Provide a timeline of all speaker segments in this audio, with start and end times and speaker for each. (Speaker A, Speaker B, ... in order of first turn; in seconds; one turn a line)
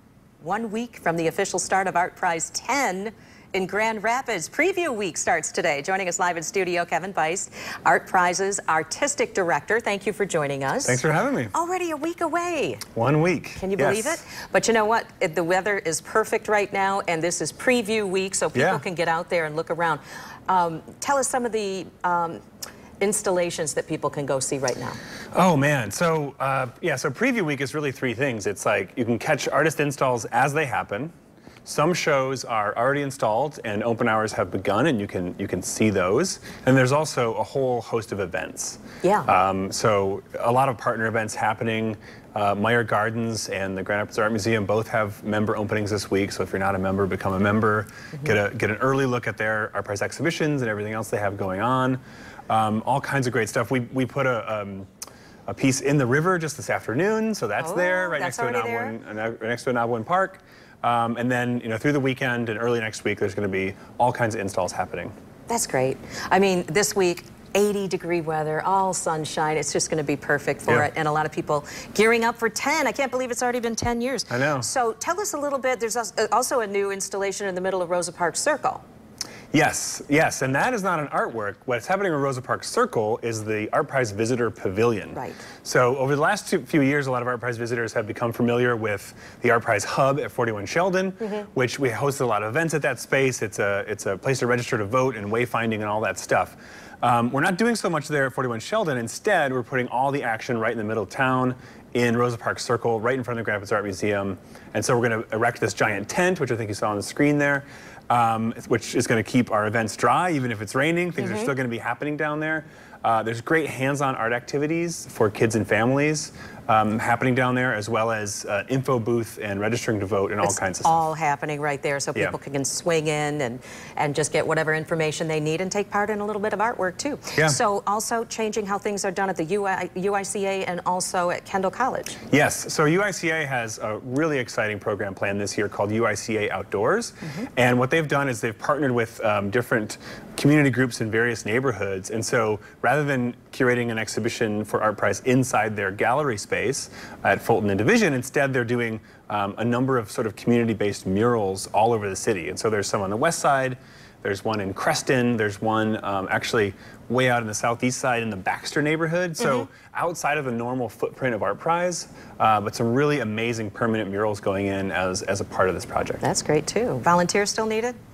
Speaker A: 0.4-11.0
Speaker B: 10.8-11.5
Speaker A: 11.5-12.8
Speaker B: 12.9-14.2
Speaker A: 13.6-22.4
Speaker B: 18.5-18.8
Speaker A: 23.0-25.0
Speaker B: 25.3-31.1
Speaker B: 31.6-54.9
Speaker A: 39.0-39.3
Speaker B: 55.5-65.1
Speaker A: 57.6-59.0
Speaker A: 65.5-78.8
Speaker B: 74.3-74.7
Speaker B: 79.5-121.0
Speaker A: 85.1-85.5
Speaker A: 91.2-91.5
Speaker A: 111.2-111.5
Speaker A: 120.4-132.2
Speaker B: 132.3-166.2
Speaker A: 159.4-159.7
Speaker A: 166.2-168.0